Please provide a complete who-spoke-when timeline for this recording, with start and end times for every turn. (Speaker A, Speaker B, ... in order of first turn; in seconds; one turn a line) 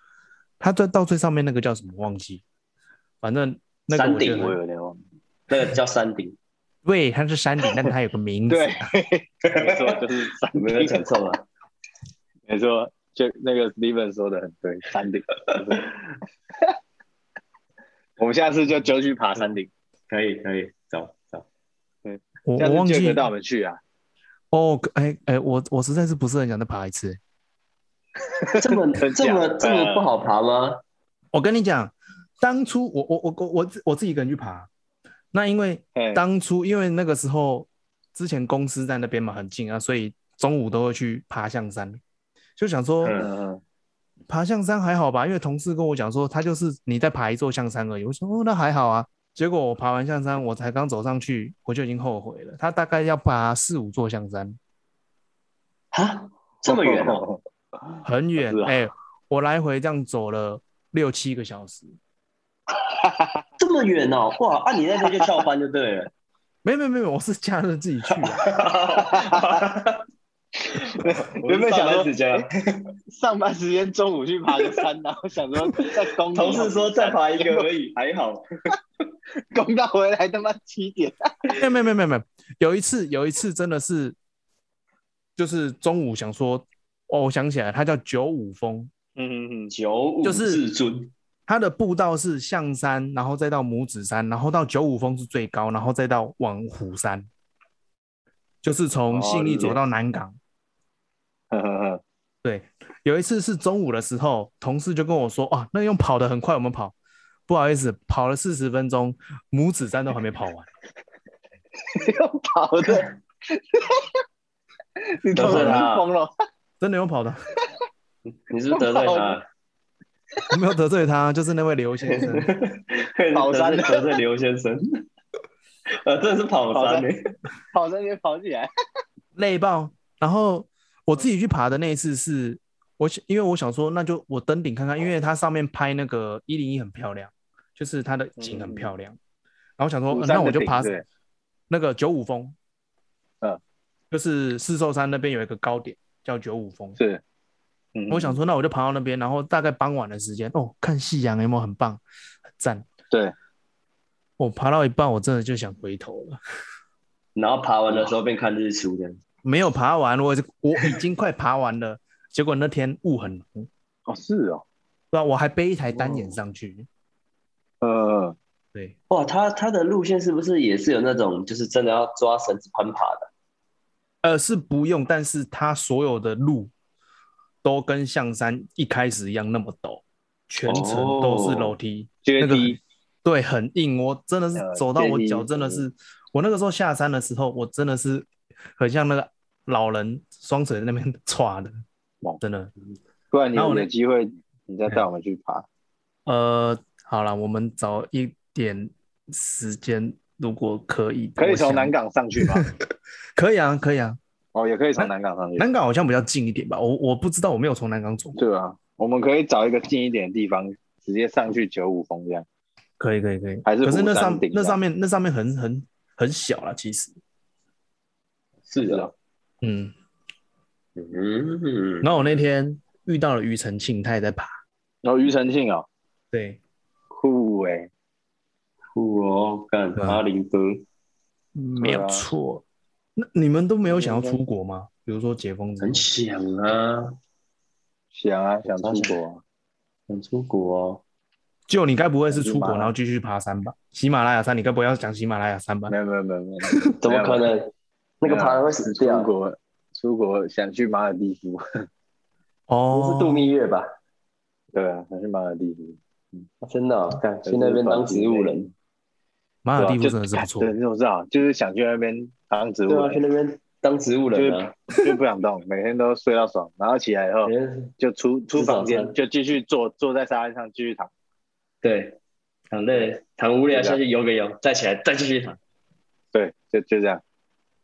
Speaker A: 0.6-2.4
Speaker A: 3.2-4.6
Speaker B: 3.9-4.6
Speaker C: 4.3-5.0
Speaker B: 5.5-6.4
Speaker A: 6.8-8.9
Speaker C: 8.5-11.1
Speaker B: 9.5-10.0
Speaker B: 10.5-11.4
Speaker C: 12.5-16.0
Speaker C: 18.2-19.7
Speaker B: 20.1-21.4
Speaker C: 22.1-23.8
Speaker A: 22.5-23.3
Speaker A: 24.5-27.2
Speaker C: 28.4-30.1
Speaker B: 28.5-30.8
Speaker A: 31.3-34.7
Speaker A: 35.3-42.0
Speaker C: 36.0-36.2
Speaker A: 42.6-43.2
Speaker B: 43.0-43.3
Speaker C: 43.1-43.6
Speaker A: 44.3-54.6
Speaker B: 55.9-57.2
Speaker C: 56.7-57.4
Speaker A: 58.0-62.0
Speaker C: 58.4-58.8
Speaker C: 63.0-63.3
Speaker B: 63.6-66.1
Speaker A: 66.6-68.5
Speaker B: 68.2-70.0
Speaker C: 69.0-69.5
Speaker B: 70.8-72.9
Speaker C: 71.0-72.5
Speaker C: 73.1-77.7
Speaker B: 75.8-78.4
Speaker C: 79.5-81.6
Speaker A: 81.6-84.2
Speaker A: 85.4-88.9
Speaker C: 89.2-89.7
Speaker B: 89.7-91.1
Speaker A: 90.2-90.6
Speaker A: 91.5-97.3
Speaker A: 98.6-100.4
Speaker C: 99.2-99.8
Speaker B: 99.2-99.8
Speaker C: 101.5-102.0
Speaker A: 102.4-107.0
Speaker A: 107.5-110.7
Speaker C: 111.9-114.1
Speaker C: 115.1-116.3
Speaker B: 115.3-116.1
Speaker A: 115.4-115.8
Speaker A: 116.8-117.5
Speaker B: 118.5-119.5
Speaker C: 118.8-119.4
Speaker A: 120.5-122.5
Speaker B: 122.1-125.0
Speaker C: 123.3-124.2
Speaker B: 126.0-127.3
Speaker C: 126.7-127.1
Speaker C: 127.7-128.7
Speaker A: 129.4-139.2
Speaker C: 138.4-138.9
Speaker A: 139.8-141.0
Speaker C: 140.1-141.0
Speaker A: 141.7-142.6
Speaker A: 144.1-147.0
Speaker C: 147.9-148.4
Speaker A: 148.1-152.0
Speaker A: 152.6-152.9
Speaker A: 154.4-156.4
Speaker B: 157.4-159.2
Speaker A: 159.4-163.7
Speaker C: 164.1-164.6
Speaker A: 165.1-166.9
Speaker C: 167.8-168.4
Speaker B: 169.1-173.3
Speaker A: 174.2-176.7
Speaker A: 177.6-191.8
Speaker B: 180.7-181.7
Speaker C: 182.2-182.8
Speaker C: 184.6-185.8
Speaker A: 192.4-192.7
Speaker C: 193.3-195.7
Speaker A: 193.6-193.9
Speaker A: 196.3-202.7
Speaker C: 201.4-202.7
Speaker A: 203.4-204.2
Speaker C: 204.6-205.7
Speaker A: 205.0-208.4
Speaker C: 208.4-212.4
Speaker A: 213.0-217.2
Speaker C: 213.7-214.8
Speaker B: 218.7-219.1
Speaker C: 218.8-219.1
Speaker A: 219.6-219.9
Speaker B: 221.0-222.1
Speaker A: 222.0-224.6
Speaker C: 225.0-225.9
Speaker A: 226.3-226.6
Speaker C: 227.1-227.9
Speaker B: 228.9-230.8
Speaker A: 230.0-230.2
Speaker A: 231.6-232.6
Speaker C: 231.8-232.3
Speaker A: 233.2-236.1
Speaker B: 235.8-237.2
Speaker C: 238.1-239.4
Speaker B: 238.8-239.2
Speaker B: 240.1-241.0
Speaker A: 241.7-245.9
Speaker C: 242.3-242.9
Speaker C: 245.9-247.5
Speaker B: 247.0-249.3
Speaker C: 248.2-251.6
Speaker A: 252.7-253.5
Speaker B: 252.9-253.9
Speaker C: 254.7-256.5
Speaker B: 256.6-258.7
Speaker C: 257.4-258.7
Speaker A: 259.6-260.7
Speaker C: 259.8-263.2
Speaker B: 262.9-264.8
Speaker C: 264.4-271.1
Speaker B: 267.4-267.9
Speaker B: 268.5-269.1
Speaker B: 271.8-272.2
Speaker B: 272.7-275.6
Speaker C: 273.7-274.0
Speaker C: 276.3-277.2